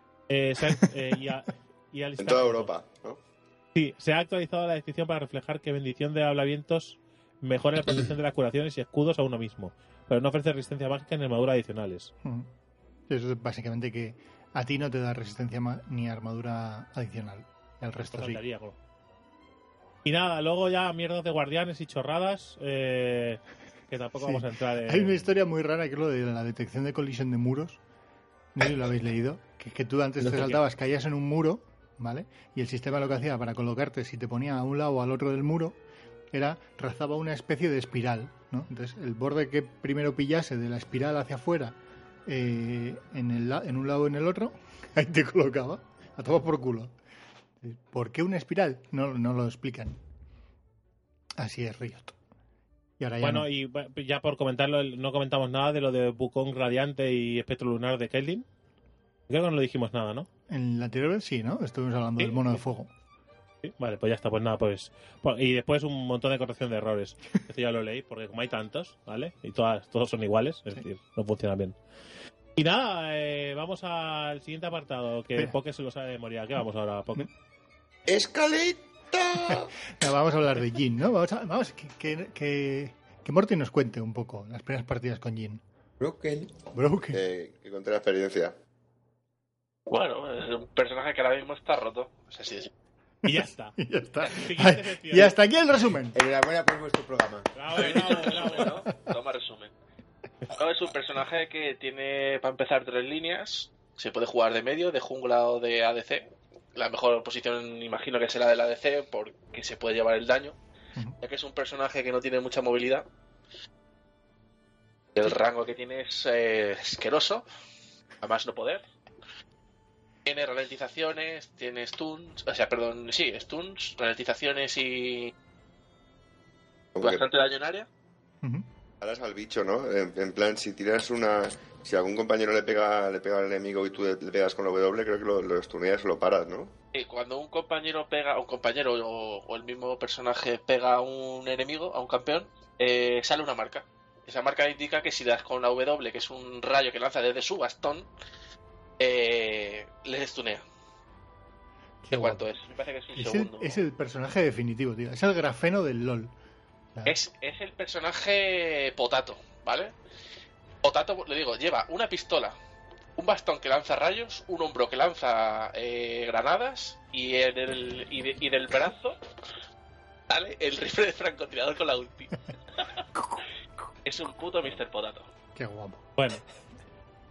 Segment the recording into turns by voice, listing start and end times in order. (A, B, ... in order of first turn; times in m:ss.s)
0:00.3-0:02.7 A
0:02.2-0:03.2 B
0:03.8-0:12.1 A
0:13.1-0:18.4 C
0:18.1-0:18.8 A
0:20.0-0:25.3 A
0:24.2-0:27.8 C
0:28.6-0:35.8 C
0:30.2-0:30.5 D
0:36.3-0:46.9 C
0:47.6-0:50.0 C
0:51.4-0:52.1 C
0:53.0-0:53.5 C
0:53.2-0:58.5 A
0:59.3-1:00.3 A
1:00.5-1:02.9 C
1:02.2-1:02.6 A
1:03.6-1:11.8 A
1:12.6-1:17.3 A
1:18.1-1:19.7 B
1:19.5-1:25.6 C
1:26.0-1:26.5 D
1:26.7-1:27.2 C
1:27.1-1:28.5 B
1:29.9-1:32.7 E
1:33.2-1:35.4 A
1:33.3-1:36.2 C
1:36.1-1:38.2 D
1:37.6-1:38.8 A
1:37.8-1:39.7 E
1:40.5-1:50.6 E
1:51.2-1:53.1 E
1:55.1-1:57.4 E
1:58.2-1:58.8 E
2:00.2-2:05.3 E
2:07.0-2:07.2 B
2:07.0-2:07.9 E
2:09.0-2:16.7 B
2:16.9-2:28.1 E
2:29.0-2:30.6 E
2:32.0-2:32.4 C
2:32.1-2:33.8 E
2:33.1-2:36.3 C
2:37.1-2:39.9 E
2:40.8-2:42.6 E
2:43.2-2:49.2 E
2:50.3-2:52.3 E
2:54.0-2:55.3 E
2:55.6-2:56.0 C
2:56.2-2:56.4 A